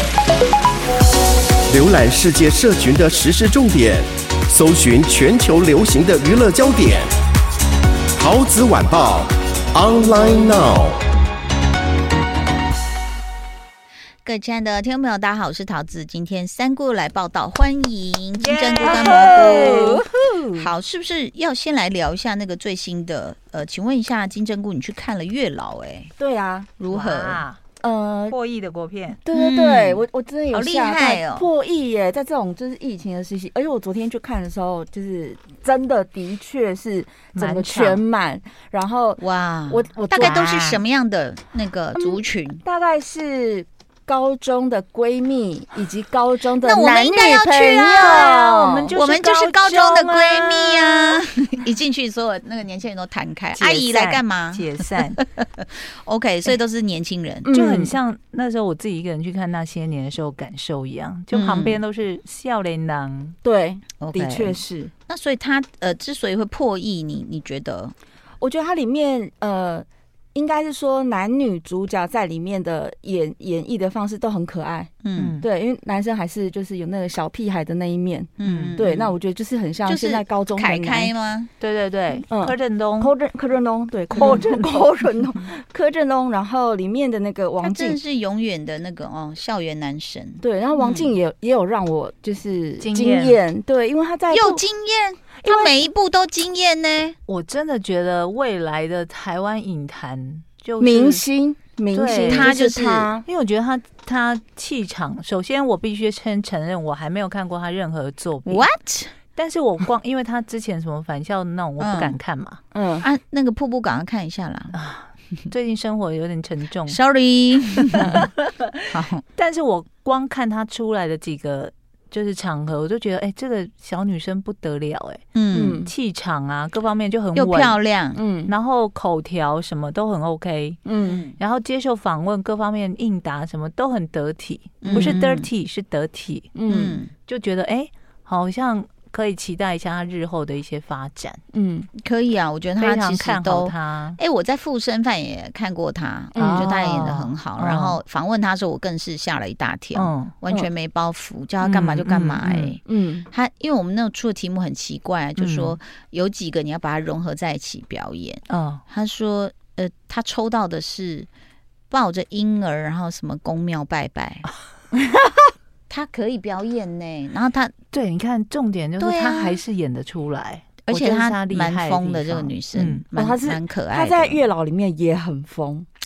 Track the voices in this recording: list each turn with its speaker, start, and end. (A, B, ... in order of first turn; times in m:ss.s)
0:01.7-0:07.1 A
0:08.2-0:11.0 A
0:14.2-0:26.2 B
0:18.4-0:20.5 C
0:18.9-0:20.0 D
0:26.2-0:26.7 D
0:26.8-0:27.4 B
0:26.9-0:27.6 C
0:27.8-0:28.4 D
0:28.3-0:29.2 C
0:29.2-0:40.8 D
0:29.3-0:31.5 B
0:37.3-0:38.0 C
0:39.2-0:42.6 B
0:42.0-0:48.9 D
0:46.6-0:48.4 B
0:47.9-0:51.2 C
0:48.9-0:57.5 B
0:53.5-0:55.2 C
0:57.5-1:03.4 C
0:57.5-0:57.9 D
1:01.3-1:01.8 B
1:03.4-1:04.9 D
1:04.0-1:07.9 B
1:08.4-1:14.9 D
1:15.0-1:15.4 B
1:15.2-1:15.5 C
1:15.4-1:21.1 D
1:18.4-1:19.2 B
1:18.4-1:18.8 C
1:19.8-1:21.5 B
1:21.6-1:23.1 C
1:22.3-1:28.0 D
1:24.1-1:25.0 C
1:27.6-1:31.1 B
1:30.4-1:34.6 D
1:32.8-1:33.4 C
1:34.3-1:37.2 B
1:37.3-1:41.2 C
1:40.8-1:43.2 D
1:41.9-1:42.6 C
1:42.2-1:43.1 B
1:43.2-1:48.7 C
1:48.4-1:49.2 B
1:49.3-1:52.6 C
1:51.8-1:52.2 B
1:52.7-1:53.0 D
1:53.0-1:54.8 B
1:54.7-1:57.0 C
1:56.9-1:58.3 B
1:57.7-1:58.8 C
1:58.9-1:59.2 B
1:59.4-2:05.2 C
2:05.3-2:05.8 B
2:05.5-2:05.9 D
2:05.8-2:07.8 C
2:07.4-2:08.2 B
2:08.2-2:08.5 D
2:08.5-2:10.8 C
2:10.8-2:11.2 D
2:11.0-2:11.4 B
2:11.4-2:16.5 C
2:14.8-2:15.5 B
2:16.6-2:17.0 D
2:16.7-2:17.1 B
2:17.2-2:21.4 C
2:21.5-2:21.9 D
2:22.0-2:41.3 B
2:22.8-2:24.2 C
2:26.4-2:28.0 C
2:26.4-2:26.7 D
2:30.0-2:30.4 C
2:31.6-2:32.8 C
2:32.9-2:33.2 D
2:35.4-2:35.8 C
2:38.5-2:38.8 C
2:41.9-2:44.5 B
2:45.9-2:47.7 B
2:47.9-2:53.0 C
2:49.0-2:49.6 B
2:50.8-2:54.4 B
2:53.2-2:55.9 D